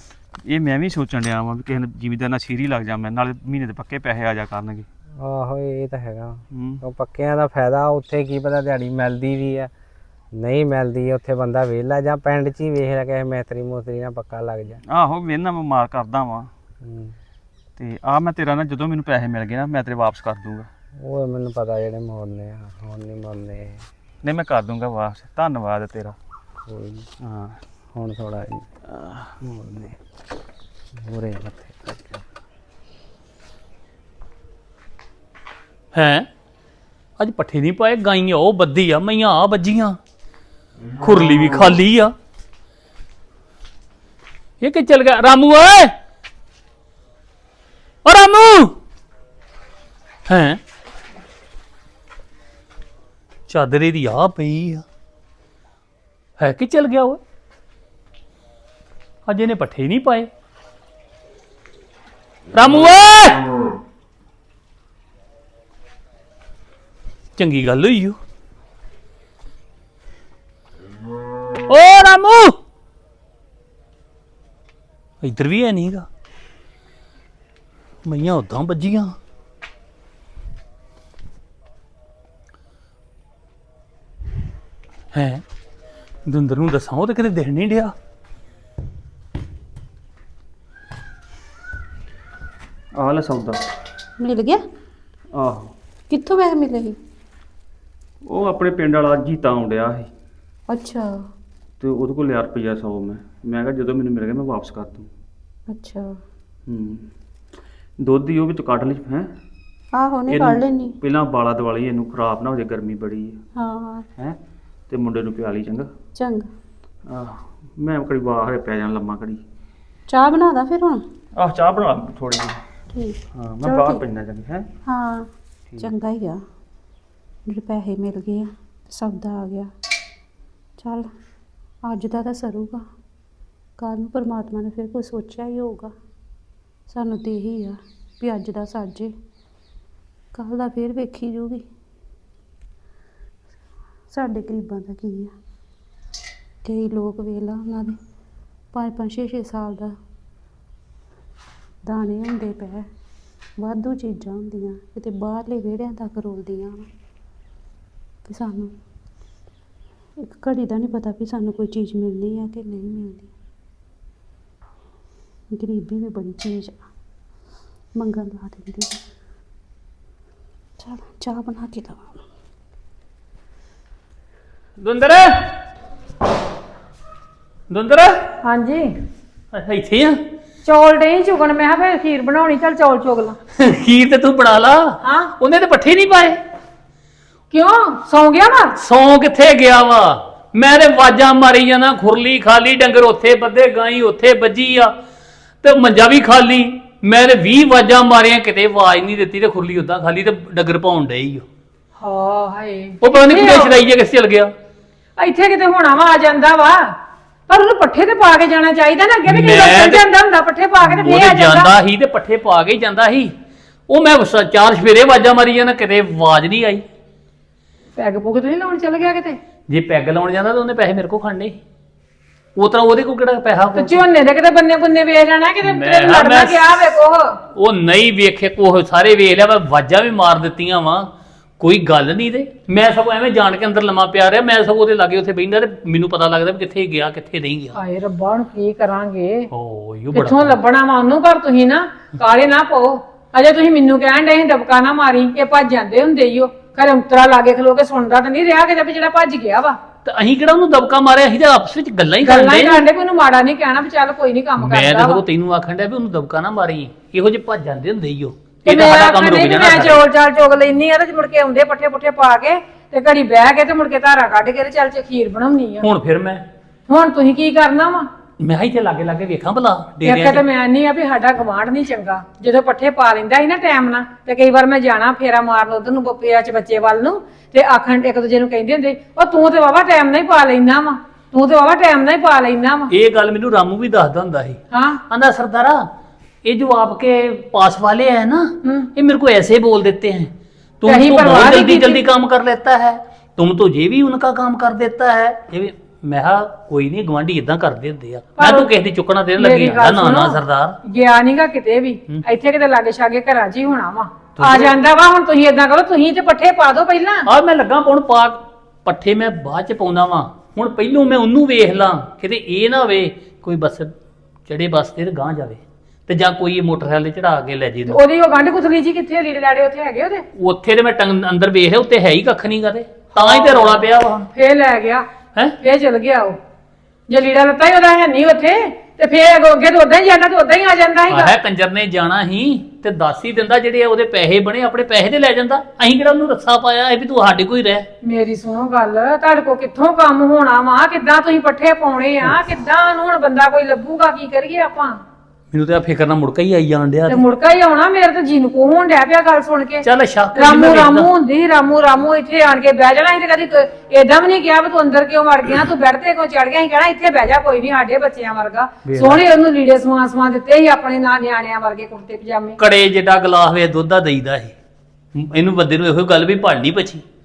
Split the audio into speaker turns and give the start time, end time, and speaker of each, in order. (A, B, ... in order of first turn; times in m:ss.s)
0:00.5-0:04.9 A
0:05.2-0:09.7 B
0:06.5-0:06.8 A
0:10.3-0:14.8 B
0:14.9-0:16.5 A
0:16.8-0:17.2 B
0:17.8-0:20.7 A
0:21.0-0:23.8 B
0:24.2-0:26.2 A
0:26.7-0:27.1 B
0:27.2-0:27.6 A
0:27.9-0:28.7 B
0:29.0-0:29.3 A
0:29.4-0:30.0 B
0:31.0-0:32.2 B
0:35.9-0:36.3 C
0:37.2-0:40.0 C
0:41.0-0:42.1 C
0:44.6-0:46.0 C
0:48.0-0:48.8 C
0:50.3-0:50.6 C
0:53.5-0:54.8 C
0:56.4-0:57.2 C
0:59.3-1:00.3 C
1:02.5-1:03.4 C
1:07.4-1:08.2 C
1:11.7-1:12.6 C
1:15.2-1:16.1 C
1:18.0-1:19.2 C
1:25.1-1:25.4 C
1:26.3-1:27.9 C
1:33.0-1:33.6 A
1:34.2-1:34.6 D
1:35.4-1:35.7 A
1:36.1-1:37.0 D
1:38.2-1:40.1 A
1:40.7-1:41.1 D
1:41.8-1:45.1 A
1:45.7-1:46.2 D
1:46.7-1:47.1 A
1:48.0-1:49.3 A
1:49.9-1:51.0 D
1:50.3-1:53.4 A
1:53.6-1:54.1 D
1:54.9-1:55.9 A
1:56.2-1:56.5 D
1:57.1-1:59.4 A
2:00.1-2:01.0 D
2:01.4-2:02.6 A
2:02.9-2:04.0 D
2:03.4-2:04.7 A
2:04.9-2:06.4 D
2:07.5-2:09.7 D
2:10.8-2:11.1 D
2:11.9-2:12.8 D
2:13.8-2:15.9 D
2:16.9-2:19.1 D
2:20.3-2:21.7 D
2:24.1-2:25.3 D
2:26.6-2:28.0 D
2:28.7-2:29.9 D
2:31.9-2:32.9 D
2:33.6-2:36.9 D
2:38.3-2:38.7 D
2:40.2-2:43.3 D
2:45.5-2:46.8 D
2:48.0-2:49.0 D
2:50.8-2:52.2 D
2:54.8-2:55.3 C
2:57.7-2:58.2 C
2:58.4-2:58.9 E
2:59.5-3:00.2 C
3:00.6-3:03.4 E
3:03.6-3:06.4 C
3:05.0-3:05.3 E
3:07.5-3:08.8 E
3:08.8-3:14.9 C
3:15.6-3:21.4 C
3:22.0-3:23.8 E
3:23.0-3:24.5 C
3:25.2-3:26.9 E
3:27.5-3:31.7 E
3:29.3-3:30.0 C
3:30.8-3:33.3 C
3:33.9-3:36.9 C
3:38.0-3:39.4 E
3:39.7-3:41.6 C
3:42.6-3:44.0 C
3:43.7-3:47.3 E
3:45.6-3:46.9 C
3:47.6-3:57.8 C
3:57.8-3:59.5 E
3:59.5-4:00.6 C
4:00.1-4:09.8 E
4:10.0-4:12.8 C
4:12.2-4:15.2 E
4:14.6-4:20.0 C
4:18.7-4:25.9 E
4:25.8-4:26.4 C
4:26.9-4:28.1 E
4:28.4-4:30.4 C
4:30.0-4:42.9 E
4:42.9-4:45.8 C
4:44.7-4:45.0 E
4:46.4-5:00.8 C
4:50.9-4:52.0 E
4:58.4-4:58.7 E
4:59.4-5:07.3 E
5:04.4-5:04.8 C
5:07.3-5:13.9 C
5:14.5-5:18.0 C
5:17.9-5:20.2 E
5:20.4-5:24.2 C
5:23.2-5:25.0 E
5:25.6-5:26.4 E
5:27.1-5:31.4 E
5:31.1-5:37.9 C
5:38.0-5:45.0 E
5:45.5-5:47.2 C
5:47.1-6:02.6 E
5:49.8-5:51.1 C
5:58.8-5:59.2 C
6:02.6-6:04.5 C
6:05.2-6:07.0 C